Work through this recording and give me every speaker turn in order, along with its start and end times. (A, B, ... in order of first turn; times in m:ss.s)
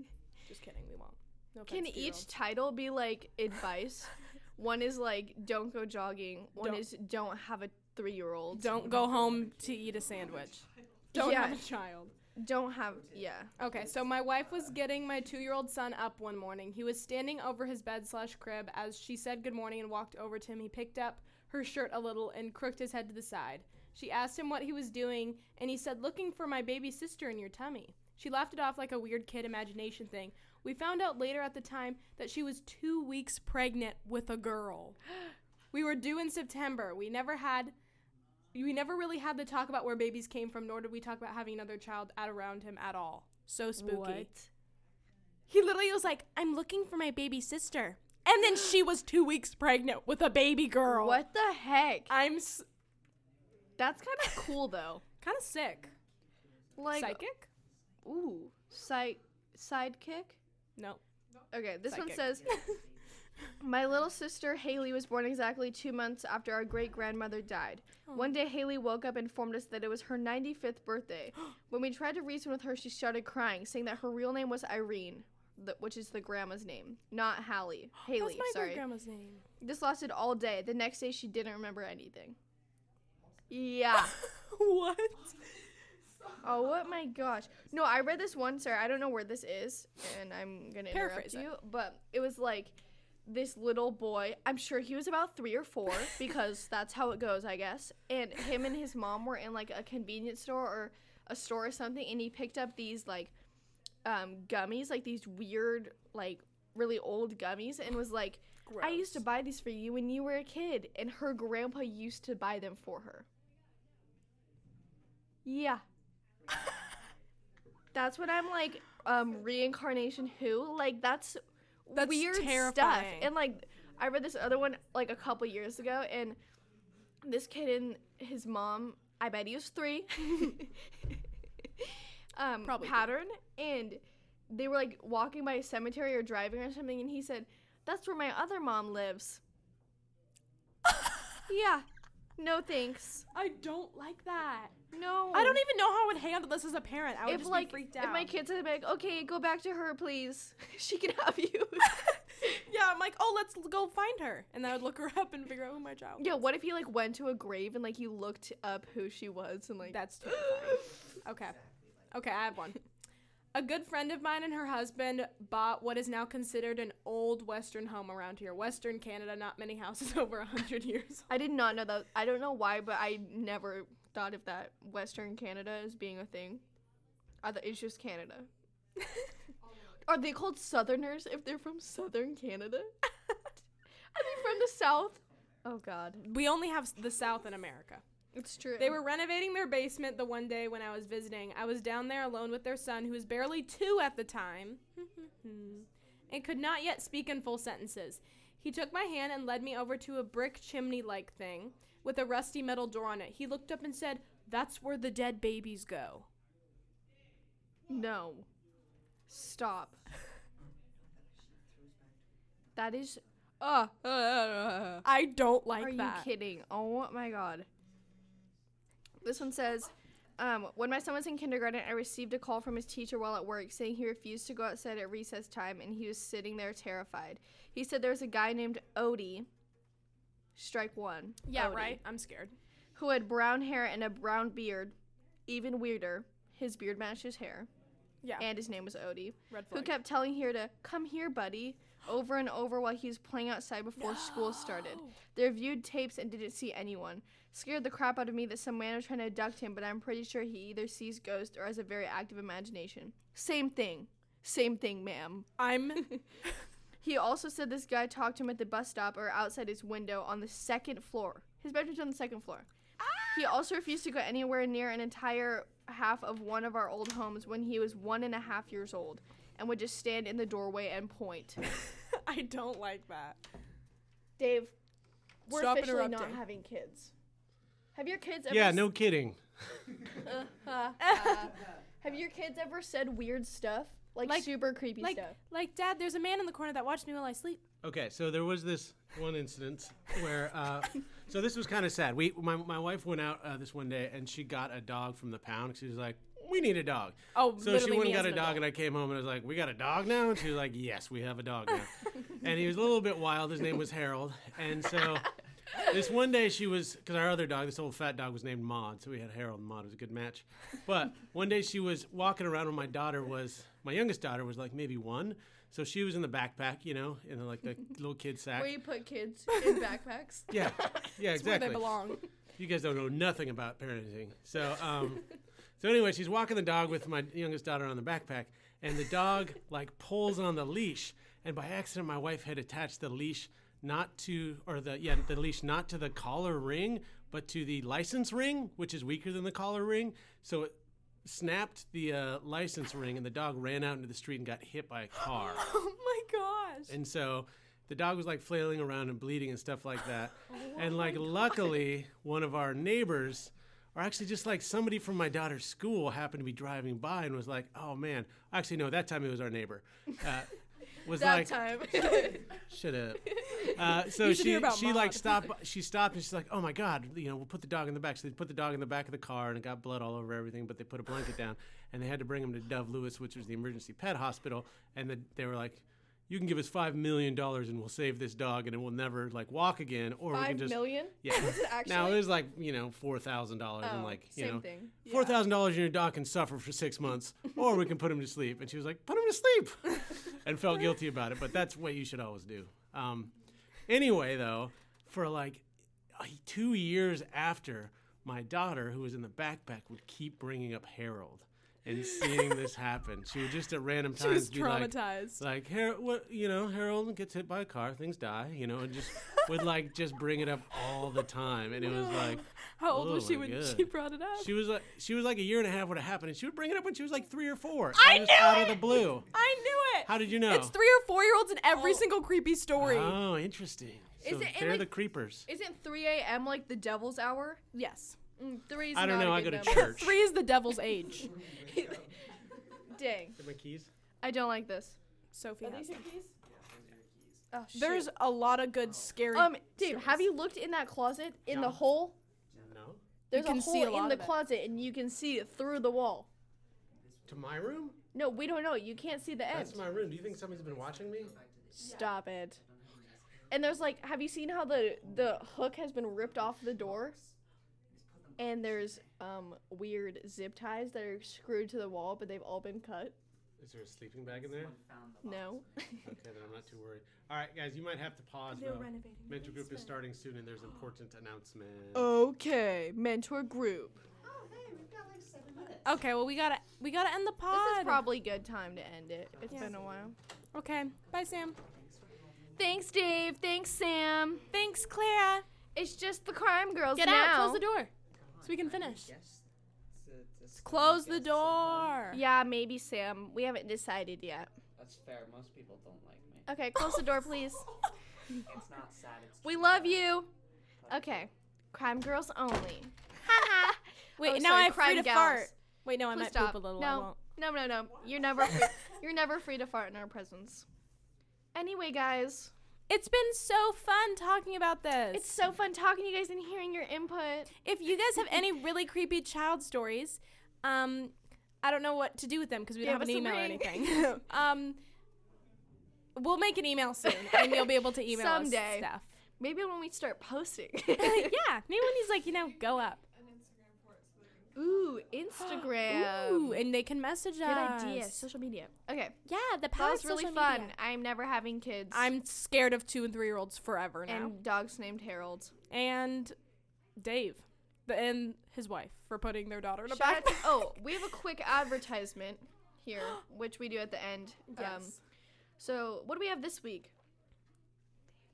0:00.5-0:02.3 A
0:01.7-0:08.8 B
0:06.6-0:06.8 A
0:08.5-0:12.1 A
0:08.6-0:11.2 C
0:11.1-0:11.6 B
0:12.4-0:13.5 B
0:12.9-0:14.9 C
0:13.6-0:35.0 A
0:35.7-0:37.7 A
0:38.5-0:44.3 A
0:43.8-0:44.5 B
0:45.5-0:51.2 A
0:50.9-0:52.1 B
0:52.1-0:52.7 A
0:53.8-0:55.0 B
0:55.2-0:55.9 A
0:56.2-0:57.1 C
0:56.8-0:57.2 B
0:56.9-0:57.5 A
0:58.0-1:00.4 B
1:00.8-1:01.0 A
1:01.5-1:02.7 B
1:01.9-1:02.8 A
1:02.0-1:03.2 C
1:03.6-1:18.8 B
1:18.0-1:19.4 A
1:19.6-1:22.4 B
1:23.2-1:23.5 C
1:23.5-1:24.2 B
1:24.0-1:25.3 A
1:26.4-1:43.3 B
1:30.9-1:31.5 A
1:44.0-1:53.3 B
1:48.7-1:49.2 A
1:55.4-1:55.8 B
1:57.9-2:06.4 B
2:02.0-2:03.4 A
2:07.2-2:10.9 B
2:11.8-2:19.4 B
2:12.6-2:13.1 A
2:21.5-2:21.9 B
2:22.4-2:23.3 B
2:23.3-2:24.8 A
2:24.9-2:25.6 B
2:25.3-2:28.3 A
2:27.3-2:32.1 B
2:31.9-2:36.3 A
2:36.2-2:40.8 B
2:39.9-2:41.6 A
2:40.6-2:42.4 C
2:42.1-2:42.8 A
2:43.5-2:51.3 A
2:51.3-2:56.6 B
2:57.4-2:58.5 B
2:59.6-3:00.1 D
3:00.0-3:02.9 B
3:04.1-3:06.3 B
3:06.2-3:08.0 A
3:08.4-3:09.0 B
3:08.8-3:26.3 A
3:27.9-3:28.5 B
3:29.3-3:30.0 B
3:30.9-3:32.2 C
3:32.8-3:35.1 B
3:35.0-3:36.3 A
3:35.8-3:37.7 B
3:39.2-3:49.5 B
3:50.6-3:52.0 B
3:51.5-3:52.6 A
3:53.0-3:55.0 B
3:55.5-3:57.7 B
3:58.4-4:15.5 B
3:59.5-4:00.0 A
4:04.0-4:05.2 A
4:15.6-4:16.2 A
4:17.0-4:22.7 B
4:23.0-4:23.4 A
4:23.3-4:31.6 B
4:32.1-4:33.4 A
4:34.4-4:34.7 B
4:35.5-4:37.1 B
4:35.5-4:36.4 A
4:38.0-4:38.9 B
4:38.5-4:39.8 E
4:40.2-4:45.4 B
4:41.0-4:41.5 A
4:44.2-4:47.6 A
4:47.8-5:18.8 E
4:57.4-4:58.6 A
5:18.5-5:20.8 B
5:19.5-5:19.8 A
5:20.5-5:40.7 E
5:21.3-5:22.3 A
5:41.2-5:45.7 E
5:45.2-5:47.0 A
5:46.9-6:33.3 E
5:50.5-5:51.2 B
6:01.1-6:02.6 B
6:03.3-6:03.8 B
6:04.1-6:05.5 A
6:20.3-6:22.2 B
6:23.8-6:25.4 B
6:33.9-6:59.3 E
6:44.2-6:45.4 A
6:51.8-6:54.5 A
6:57.9-7:03.2 A
7:00.0-7:00.8 E
7:01.7-7:02.1 B
7:02.8-7:05.5 E
7:04.2-7:07.6 B
7:07.7-7:08.2 A
7:08.4-7:10.0 B
7:08.9-7:10.2 E
7:09.6-7:11.3 A
7:11.2-7:12.4 C
7:11.6-7:12.1 B
7:12.8-7:13.4 B
7:13.4-7:13.9 E
7:14.2-7:15.0 B
7:15.3-7:16.0 A
7:15.6-7:16.3 B
7:16.4-7:17.5 C
7:17.5-7:18.1 B
7:17.7-7:20.3 A
7:18.8-7:19.4 C
7:19.3-7:22.2 B
7:21.5-7:21.8 E
7:22.5-7:22.8 C
7:22.6-7:23.0 E
7:23.3-7:26.3 B
7:23.3-7:24.4 A
7:26.9-7:28.0 C
7:27.3-7:28.0 E
7:28.1-7:29.8 B
7:28.9-7:33.9 C
7:29.5-7:31.4 E
7:31.8-7:32.6 B
7:33.5-7:37.2 B
7:34.8-7:35.5 C
7:36.2-7:39.2 C
7:38.4-7:43.2 B
7:43.6-7:44.8 E
7:44.2-7:46.8 C
7:45.2-7:46.1 B
7:46.0-7:52.1 E
7:48.5-7:49.9 A
7:51.9-7:54.0 B
7:54.2-7:56.1 C
7:55.8-7:58.0 A
7:57.5-8:00.2 B
7:59.3-8:00.1 C
8:00.5-8:01.6 A
8:01.1-8:03.0 C
8:02.6-8:04.5 B
8:04.5-8:05.5 A
8:05.7-8:07.6 B
8:07.0-8:07.9 A
8:08.1-8:12.2 C
8:08.4-8:09.1 A
8:10.6-8:12.2 A
8:12.1-8:14.5 B
8:14.8-8:16.5 C
8:16.5-8:17.7 B
8:18.3-8:20.2 C
8:19.4-8:20.3 B
8:20.8-8:21.3 C
8:20.9-8:25.5 B
8:23.3-8:23.7 A
8:24.2-8:27.2 A
8:26.1-8:30.7 B
8:31.6-8:32.5 B
8:32.9-8:35.3 A
8:35.1-8:37.5 B
8:37.6-8:44.8 A
8:42.8-8:44.1 B
8:46.2-8:49.1 A
8:47.0-8:51.4 B
8:51.0-8:53.0 A
8:52.2-8:55.1 D
8:54.6-8:56.7 B
8:55.4-8:58.3 A
8:57.4-8:59.2 B
8:59.3-9:00.7 A
8:59.8-9:02.1 B
9:01.9-9:04.4 A
9:04.1-9:05.5 B
9:05.7-9:06.4 A
9:07.0-9:10.7 A
9:09.9-9:15.0 B
9:14.5-9:15.0 A
9:15.6-9:16.9 B